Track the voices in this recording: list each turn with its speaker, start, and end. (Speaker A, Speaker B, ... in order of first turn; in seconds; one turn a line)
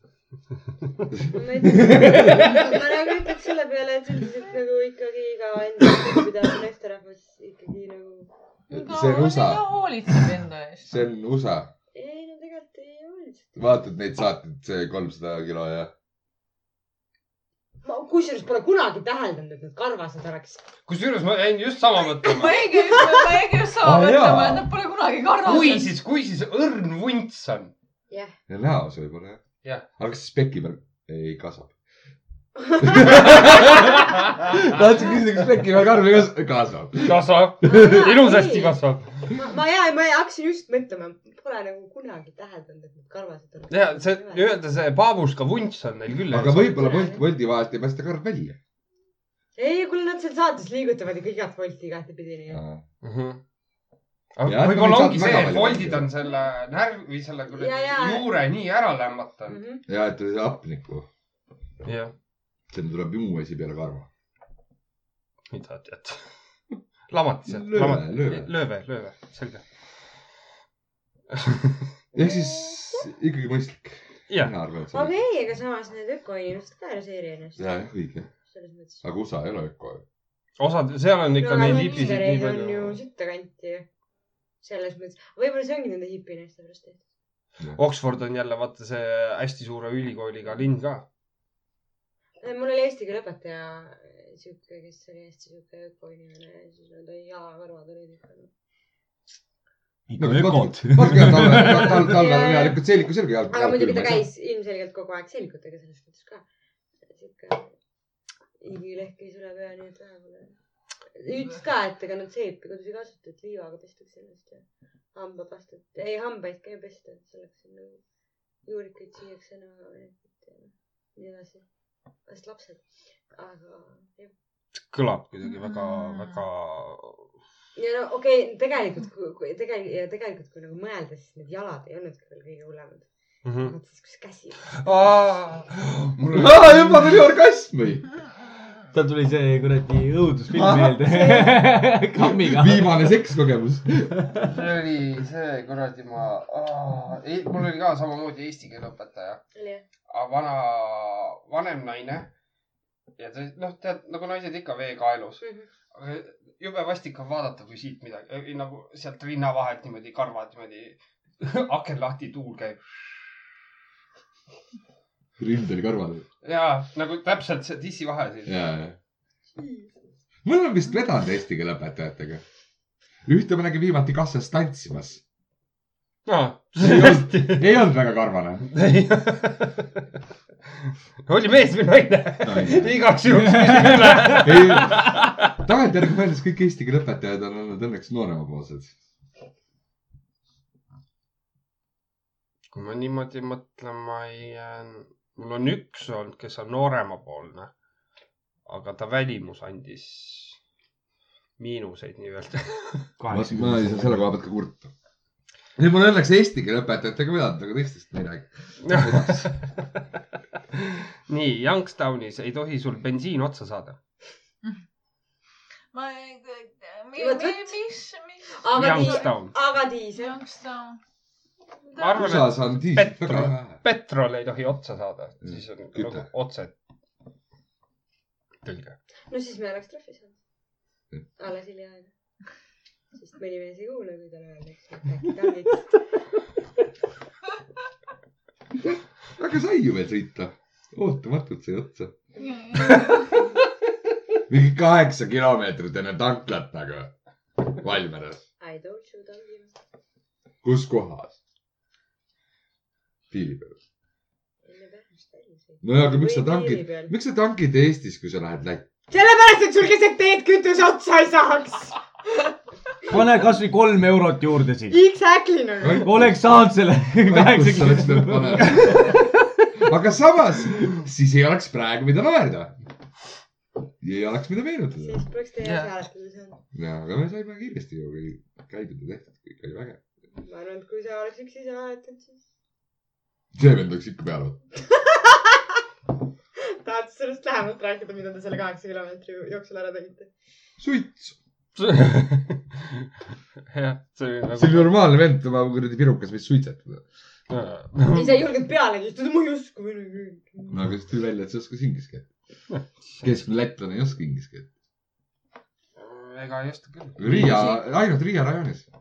Speaker A: 1.3-8.3
Speaker B: 1.6-2.6
Speaker C: 8.7-9.7
Speaker D: 8.7-11.0
Speaker C: 10.9-11.7
Speaker A: 11.9-13.5
Speaker C: 13.6-15.9
Speaker A: 17.8-20.6
Speaker E: 20.9-22.7
Speaker D: 22.2-25.9
Speaker A: 22.9-23.1
Speaker C: 23.8-24.7
Speaker E: 25.4-27.7
Speaker C: 28.5-29.4
Speaker C: 30.0-31.7
Speaker A: 32.6-33.5
Speaker C: 32.8-38.0
Speaker E: 37.0-39.1
Speaker A: 37.6-44.5
Speaker E: 43.7-46.8
Speaker C: 46.3-48.6
Speaker A: 46.7-47.2
Speaker A: 49.5-52.6
Speaker C: 52.5-52.8
Speaker E: 53.0-53.4
Speaker E: 54.4-59.6
Speaker C: 54.5-56.1
Speaker A: 57.5-58.3
Speaker A: 59.5-59.8
Speaker C: 59.9-61.1
Speaker E: 61.8-62.1
Speaker C: 62.7-64.1
Speaker E: 65.5-66.3
Speaker E: 67.1-69.6
Speaker C: 67.5-68.5
Speaker E: 71.3-71.8
Speaker A: 72.1-73.1
Speaker C: 72.1-75.1
Speaker A: 74.9-77.7
Speaker C: 77.6-78.3
Speaker A: 78.5-79.0
Speaker C: 79.0-80.0
Speaker E: 80.6-83.0
Speaker A: 81.4-83.9
Speaker A: 84.6-87.0
Speaker E: 87.7-91.0
Speaker A: 92.4-98.5
Speaker B: 100.1-102.1
Speaker C: 100.2-104.3
Speaker A: 101.5-102.8
Speaker A: 103.5-106.4
Speaker A: 107.1-107.7
Speaker A: 108.6-110.5
Speaker A: 111.1-118.0
Speaker A: 118.6-121.6
Speaker A: 122.3-124.3
Speaker E: 124.9-127.3
Speaker D: 125.5-126.4
Speaker A: 127.8-133.1
Speaker E: 133.4-133.7
Speaker A: 133.6-134.9
Speaker E: 134.8-137.2
Speaker C: 136.3-138.1
Speaker B: 138.9-143.1
Speaker C: 140.5-141.3
Speaker A: 141.1-141.6
Speaker C: 142.2-144.3
Speaker E: 144.5-149.4
Speaker A: 149.6-149.8
Speaker E: 150.1-152.3
Speaker E: 153.2-163.3
Speaker A: 155.4-155.7
Speaker C: 165.4-166.3
Speaker E: 166.4-168.6
Speaker C: 168.4-169.0
Speaker A: 169.6-169.9
Speaker C: 170.4-172.4
Speaker C: 173.3-175.2
Speaker E: 176.3-177.7
Speaker C: 176.8-178.7
Speaker E: 178.7-179.9
Speaker E: 181.3-185.5
Speaker C: 182.4-182.9
Speaker B: 183.3-184.5
Speaker C: 184.4-188.9
Speaker E: 192.7-197.7
Speaker E: 198.7-200.6
Speaker E: 201.6-203.1
Speaker B: 203.2-204.3
Speaker C: 203.3-204.9
Speaker C: 205.8-209.5
Speaker E: 208.8-209.6
Speaker E: 211.3-214.0
Speaker D: 215.9-219.3
Speaker A: 217.1-217.9
Speaker A: 218.5-220.4
Speaker E: 218.7-219.5
Speaker D: 220.1-221.0
Speaker E: 222.0-226.7
Speaker C: 222.2-223.8
Speaker C: 225.4-226.3
Speaker E: 228.6-228.9
Speaker A: 229.3-230.4
Speaker A: 231.4-232.1
Speaker A: 233.2-235.9
Speaker C: 239.4-242.2
Speaker D: 242.4-243.4
Speaker C: 244.5-248.4
Speaker A: 248.6-249.7
Speaker C: 250.6-251.4
Speaker C: 253.3-253.8
Speaker A: 254.6-257.1
Speaker C: 255.8-258.9
Speaker A: 259.1-262.0
Speaker B: 263.1-265.0
Speaker A: 264.9-266.1
Speaker C: 265.8-266.6
Speaker B: 266.0-269.1
Speaker C: 267.2-272.7
Speaker C: 274.0-275.2
Speaker A: 275.0-276.6
Speaker E: 275.6-275.9
Speaker C: 276.7-280.0
Speaker A: 280.4-282.4
Speaker C: 283.5-284.6
Speaker A: 284.9-285.6
Speaker A: 286.6-290.3
Speaker C: 290.8-291.4
Speaker E: 291.8-293.0
Speaker E: 293.7-294.9
Speaker C: 294.6-297.1
Speaker E: 297.5-298.4
Speaker A: 298.1-300.8
Speaker C: 300.7-302.3
Speaker E: 302.7-303.4
Speaker C: 303.2-304.7
Speaker E: 306.0-307.8
Speaker C: 307.2-308.9